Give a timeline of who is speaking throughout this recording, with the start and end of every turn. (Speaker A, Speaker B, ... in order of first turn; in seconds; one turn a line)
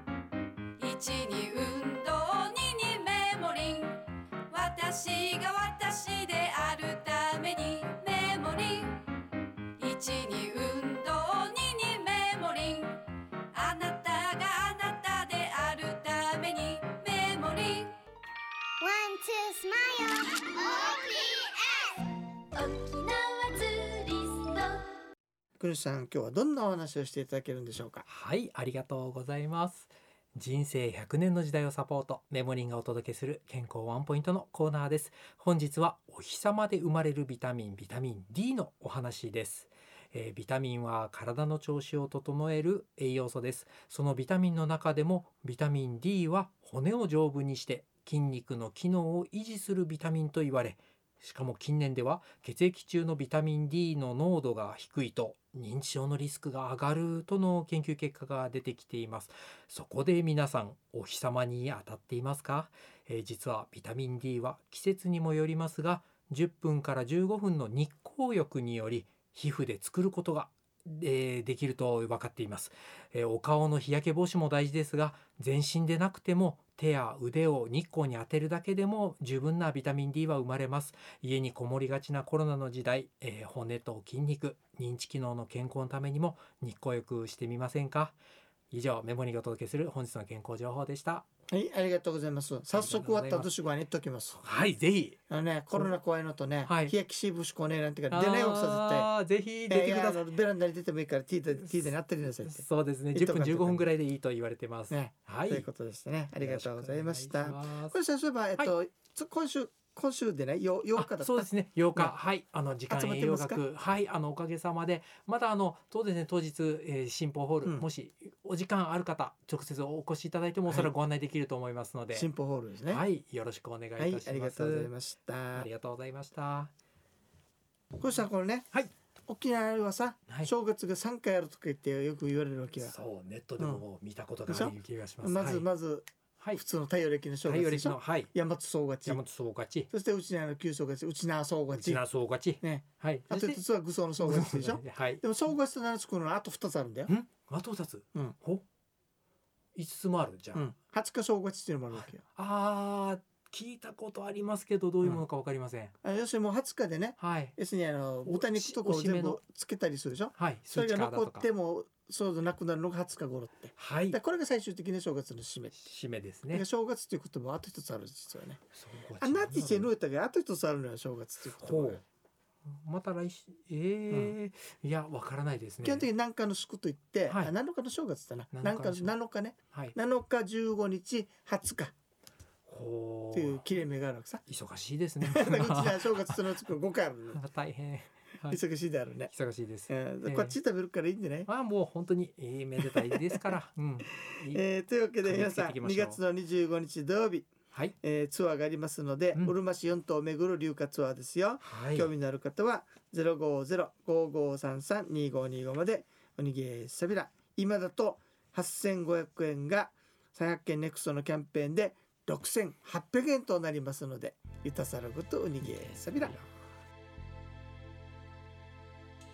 Speaker A: 0.8-9.2
Speaker A: 9.8-18.0
Speaker B: 18.8-23.6
Speaker A: 22.5-24.9
Speaker C: 25.6-28.1
Speaker D: 28.1-88.2
Speaker D: 88.7-91.2
Speaker C: 91.5-94.4
Speaker D: 92.7-93.5
Speaker D: 94.4-95.2
Speaker C: 95.3-99.1
Speaker D: 96.6-96.9
Speaker D: 98.1-100.3
Speaker C: 99.7-103.8
Speaker D: 101.6-101.9
Speaker D: 102.4-105.7
Speaker C: 104.9-112.1
Speaker D: 106.3-108.0
Speaker D: 111.0-122.3
Speaker C: 112.9-113.6
Speaker C: 122.1-123.0
Speaker D: 122.9-124.9
Speaker C: 124.0-125.7
Speaker D: 125.5-126.7
Speaker C: 128.0-128.7
Speaker C: 129.3-132.9
Speaker D: 132.8-135.6
Speaker C: 133.6-133.8
Speaker C: 134.5-139.2
Speaker D: 137.4-138.3
Speaker D: 139.1-139.9
Speaker C: 139.9-142.0
Speaker D: 141.7-143.6
Speaker C: 142.6-147.1
Speaker D: 144.2-145.2
Speaker D: 147.1-148.6
Speaker D: 149.7-150.7
Speaker C: 150.5-152.2
Speaker D: 151.9-155.9
Speaker C: 156.0-165.9
Speaker D: 157.2-157.6
Speaker D: 158.2-159.4
Speaker D: 160.3-161.5
Speaker D: 163.8-164.2
Speaker D: 165.7-166.6
Speaker C: 166.5-168.6
Speaker D: 168.7-169.9
Speaker C: 169.2-172.0
Speaker D: 171.6-172.0
Speaker D: 172.7-176.1
Speaker C: 175.8-181.9
Speaker D: 177.3-177.5
Speaker D: 178.5-179.1
Speaker D: 182.7-183.7
Speaker C: 183.3-184.4
Speaker D: 184.5-186.4
Speaker C: 185.2-187.4
Speaker D: 187.3-188.6
Speaker C: 188.4-189.3
Speaker D: 189.3-190.6
Speaker C: 189.9-191.5
Speaker D: 191.4-194.6
Speaker C: 192.8-193.5
Speaker C: 194.2-216.4
Speaker D: 195.2-196.2
Speaker D: 201.6-202.1
Speaker D: 215.6-216.4